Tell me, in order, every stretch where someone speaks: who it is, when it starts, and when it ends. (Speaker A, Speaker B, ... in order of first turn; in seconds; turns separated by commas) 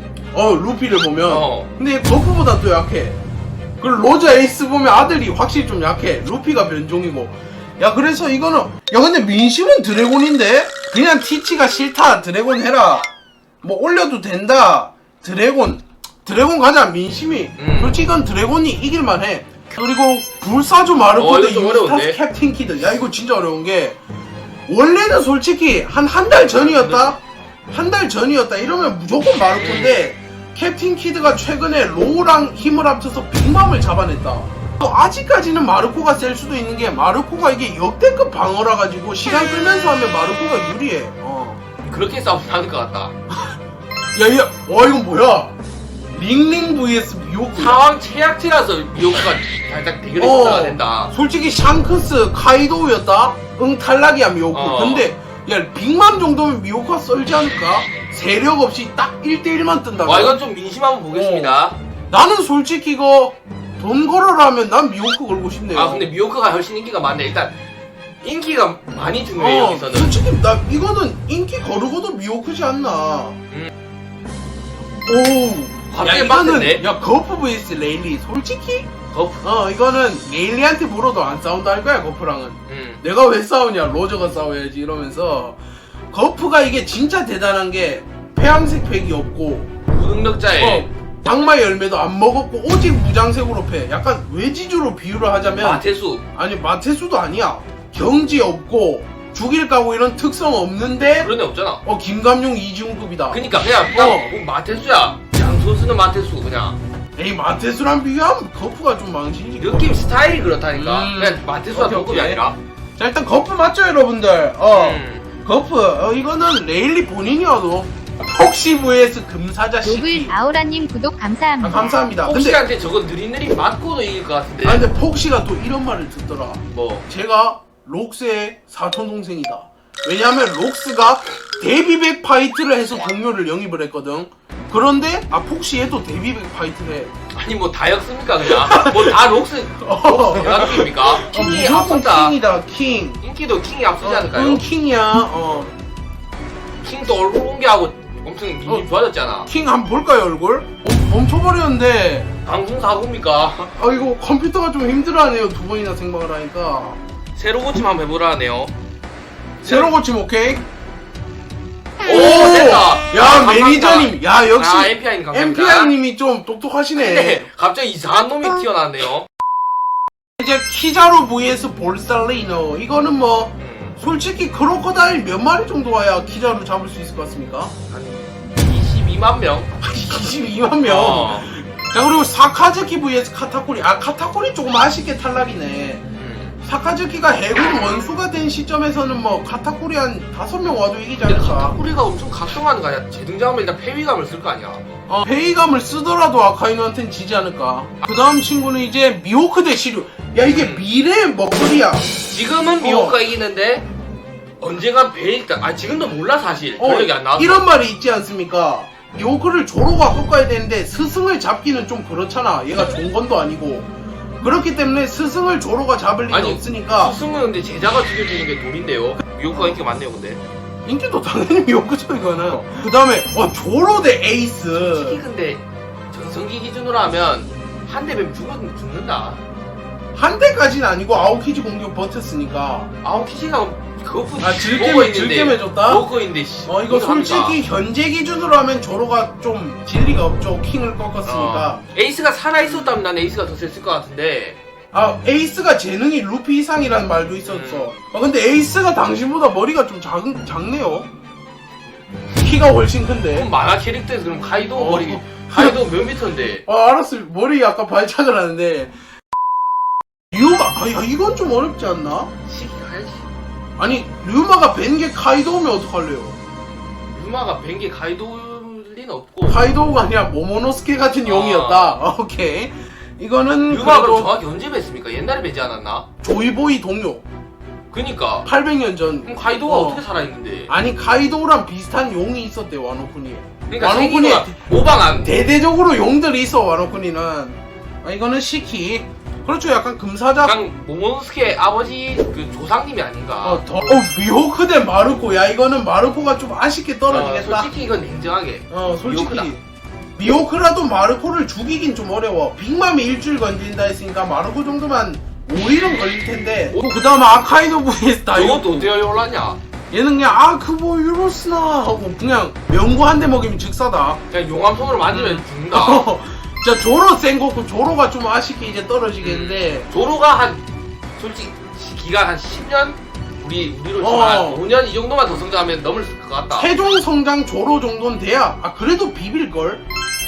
Speaker A: 0.3-3.2, Speaker B: 1.3-1.7, Speaker A: 3.8-13.1, Speaker A: 13.6-24.0, Speaker B: 17.6-18.0, Speaker B: 21.2-22.2, Speaker A: 24.7-27.2, Speaker B: 26.5-27.2, Speaker A: 27.7-41.6, Speaker B: 29.6-30.0, Speaker B: 41.8-43.1, Speaker A: 44.1-45.5, Speaker A: 46.1-47.8, Speaker B: 47.6-51.1, Speaker A: 50.2-60.4, Speaker B: 54.5-55.1, Speaker B: 60.0-61.8, Speaker A: 61.1-66.1, Speaker B: 65.8-67.6, Speaker B: 68.2-70.2, Speaker A: 69.4-73.4, Speaker A: 75.1-78.9, Speaker B: 75.9-76.8, Speaker B: 79.1-79.5, Speaker A: 79.4-85.6, Speaker B: 82.7-83.0, Speaker A: 86.1-89.7, Speaker B: 89.9-90.9, Speaker A: 90.6-101.3, Speaker B: 95.6-96.3, Speaker B: 101.2-101.8, Speaker A: 101.8-103.4, Speaker B: 103.3-106.8, Speaker A: 103.9-104.3, Speaker A: 107.2-110.0, Speaker B: 109.6-112.6, Speaker A: 110.7-112.5, Speaker A: 113.0-120.4, Speaker B: 114.7-115.3, Speaker C: 119.8-122.0, Speaker A: 121.6-122.6, Speaker B: 122.1-124.9, Speaker A: 124.6-137.1, Speaker B: 126.7-127.0, Speaker B: 137.3-142.4, Speaker A: 138.5-139.2, Speaker A: 139.8-143.2, Speaker B: 143.2-144.6, Speaker A: 144.0-145.7, Speaker B: 146.8-149.5, Speaker A: 149.4-152.3, Speaker B: 152.4-153.7, Speaker A: 153.6-157.0, Speaker B: 157.4-158.7, Speaker B: 159.6-159.9, Speaker A: 159.6-160.6, Speaker B: 162.1-165.9, Speaker A: 162.1-167.5, Speaker B: 166.9-169.3, Speaker A: 170.4-177.7, Speaker B: 173.6-174.0, Speaker B: 177.9-179.7, Speaker A: 179.8-186.0, Speaker B: 180.8-181.5, Speaker B: 186.2-186.6, Speaker A: 186.6-191.8, Speaker B: 191.2-194.8, Speaker A: 195.1-202.2, Speaker B: 200.4-200.9, Speaker B: 202.3-203.9, Speaker A: 202.8-203.2, Speaker B: 204.6-207.7, Speaker A: 206.8-213.9, Speaker A: 214.4-217.2, Speaker B: 216.3-220.4, Speaker A: 219.5-219.8, Speaker A: 220.8-225.2, Speaker B: 222.3-222.6, Speaker B: 224.7-229.4, Speaker A: 230.2-232.9, Speaker B: 233.0-237.6, Speaker A: 234.4-236.1, Speaker A: 236.7-241.8, Speaker B: 241.2-244.6, Speaker A: 244.9-251.1, Speaker B: 247.5-247.9, Speaker A: 252.4-253.5, Speaker B: 253.3-256.6, Speaker A: 254.8-255.9, Speaker A: 256.7-258.9, Speaker A: 260.3-262.3, Speaker B: 262.4-263.2, Speaker A: 263.8-266.4, Speaker B: 267.1-269.6, Speaker A: 269.5-274.3, Speaker B: 271.2-272.0, Speaker B: 273.7-276.1, Speaker A: 276.2-277.2, Speaker B: 277.9-278.5, Speaker A: 278.5-280.0, Speaker B: 279.3-280.7, Speaker A: 280.7-284.6, Speaker B: 283.7-285.4, Speaker A: 285.2-290.6, Speaker B: 290.4-294.1, Speaker A: 293.4-297.7, Speaker B: 297.1-299.5, Speaker A: 298.7-299.6, Speaker A: 300.2-308.9, Speaker B: 308.3-309.6, Speaker A: 309.9-314.2, Speaker B: 314.3-316.0, Speaker A: 315.1-319.9, Speaker B: 319.2-320.6, Speaker B: 321.2-326.7, Speaker A: 324.0-324.6, Speaker A: 326.6-329.8